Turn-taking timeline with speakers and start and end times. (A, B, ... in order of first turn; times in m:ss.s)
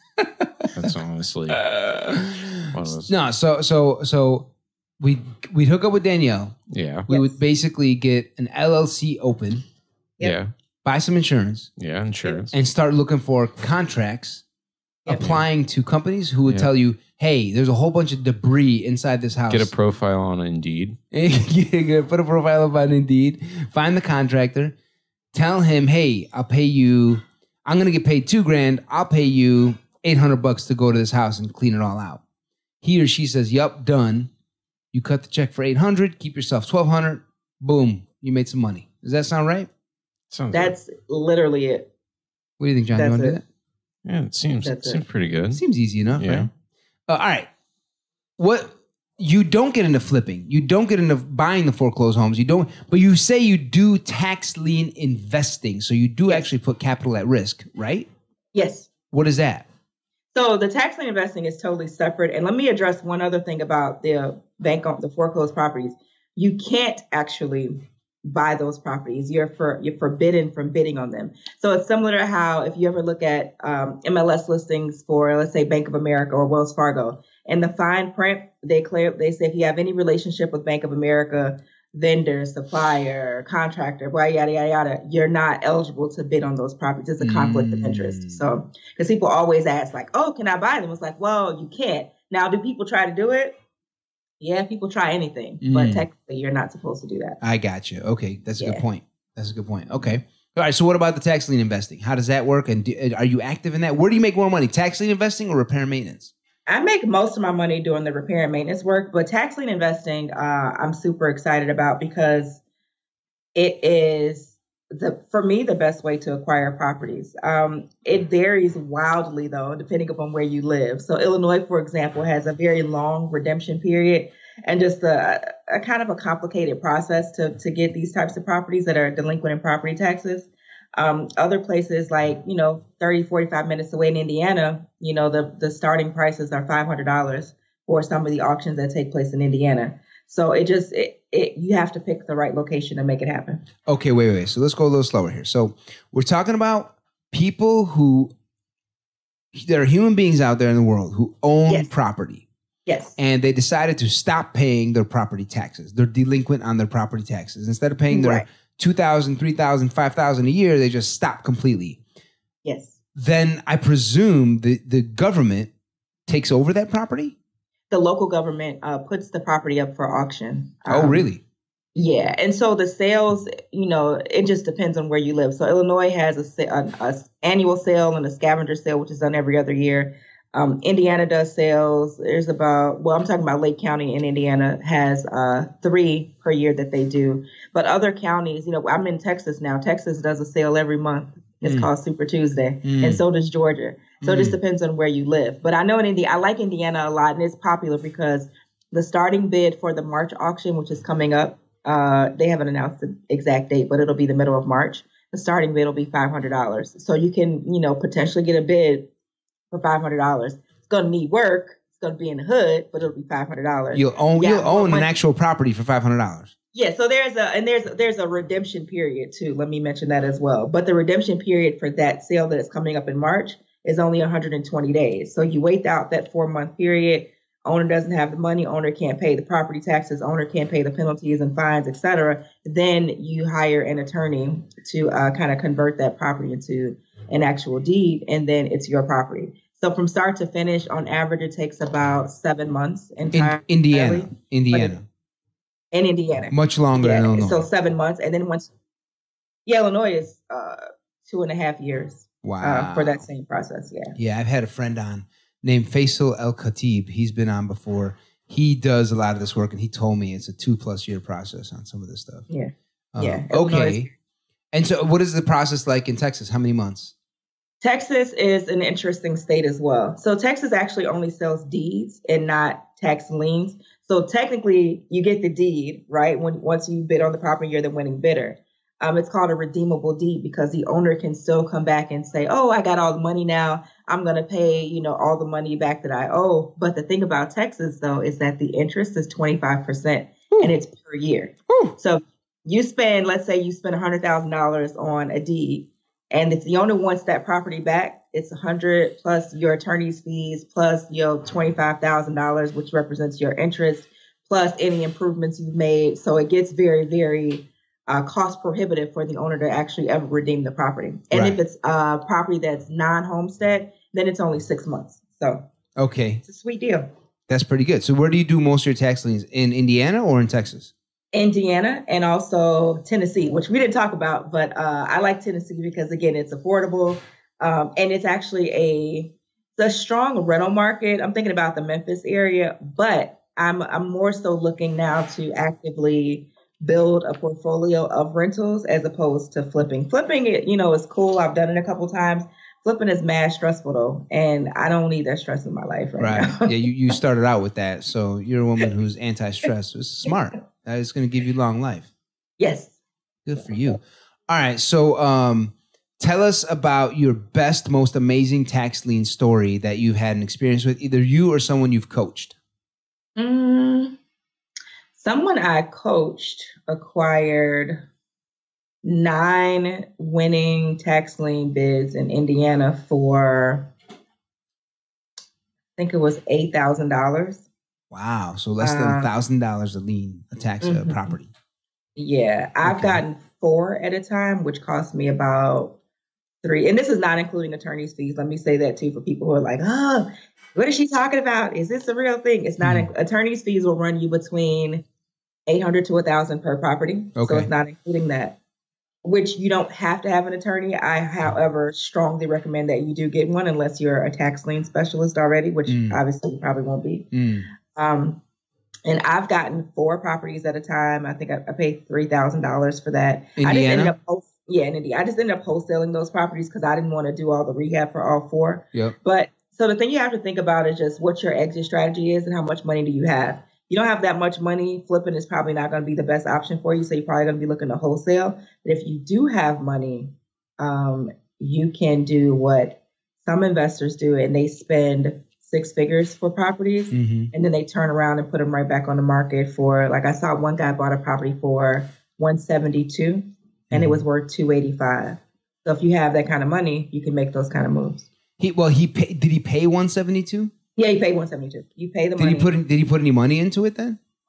0:00.2-0:00.7 A
0:00.7-0:01.6 B
0:01.5-0:06.6 A
0:02.7-0:03.1 B
0:06.7-0:07.1 B
0:07.1-0:07.4 C
0:07.1-0:09.6 A
0:10.2-0:10.5 B
0:10.8-0:11.7 A
0:11.8-0:12.5 B
0:12.5-0:14.4 A
0:15.1-0:19.7 A
0:15.2-0:15.4 B
0:19.5-0:21.0 B
0:21.1-0:24.7 A
0:25.3-0:32.2 A
0:32.8-0:34.3 A
0:34.9-0:39.7 A
0:40.3-0:40.7 B
0:40.5-0:41.9 C
0:42.6-0:43.4 A
0:43.0-0:43.4 C
0:44.0-0:45.6 B
0:44.6-0:45.0 C
0:45.5-0:46.5 A
0:46.2-0:46.5 B
0:47.1-0:47.5 A
0:48.4-0:58.1 A
0:58.5-0:58.9 C
0:59.1-0:59.7 A
1:00.3-1:33.6 C
1:27.2-1:28.4 A
1:34.4-1:37.4 C
1:35.6-1:36.0 A
1:37.4-1:46.3 A
1:46.7-1:52.6 C
1:53.5-2:23.6 C
2:23.9-2:28.3 A
2:29.5-2:32.4 A
2:32.8-2:33.2 C
2:33.2-2:42.0 A
2:38.1-2:38.4 C
2:42.6-2:43.0 C
2:43.1-2:45.7 A
2:46.3-2:47.4 A
2:47.9-2:51.3 C
2:50.9-2:51.4 A
2:51.9-3:29.1 C
3:11.6-3:11.9 A
3:12.8-3:13.2 A
3:14.2-3:14.6 A
3:29.7-3:35.1 C
3:33.9-3:36.5 A
3:36.7-4:05.0 C
4:03.3-4:05.0 A
4:05.9-4:08.7 C
4:06.5-4:07.6 A
4:09.6-4:14.1 C
4:12.4-4:13.2 A
4:14.2-4:22.5 A
4:22.5-4:24.1 C
4:23.1-4:24.1 A
4:24.7-4:27.1 A
4:27.8-5:15.6 C
4:51.7-4:51.9 A
5:11.3-5:11.6 A
5:16.0-5:16.4 A
5:16.4-5:17.1 C
5:17.5-5:20.9 A
5:21.3-5:46.7 C
5:46.2-5:52.1 A
5:52.6-5:53.0 C
5:53.4-6:02.6 A
6:03.4-6:04.2 C
6:05.2-6:08.0 C
6:09.0-6:13.9 C
6:16.0-6:17.6 C
6:18.1-6:21.5 A
6:18.8-6:19.3 C
6:20.8-6:21.3 C
6:22.2-6:26.0 C
6:22.8-6:23.2 A
6:26.6-6:35.0 C
6:32.8-6:33.1 A
6:35.7-6:38.6 C
6:37.4-6:37.7 A
6:39.2-6:47.3 C
6:45.8-6:46.2 A
6:47.3-6:47.7 A
6:47.8-6:48.4 C
6:49.0-7:28.3 C
6:53.6-6:54.1 A
7:17.1-7:17.5 A
7:23.9-7:24.2 A
7:28.6-7:30.7 A
7:31.0-7:32.7 C
7:32.4-7:34.2 A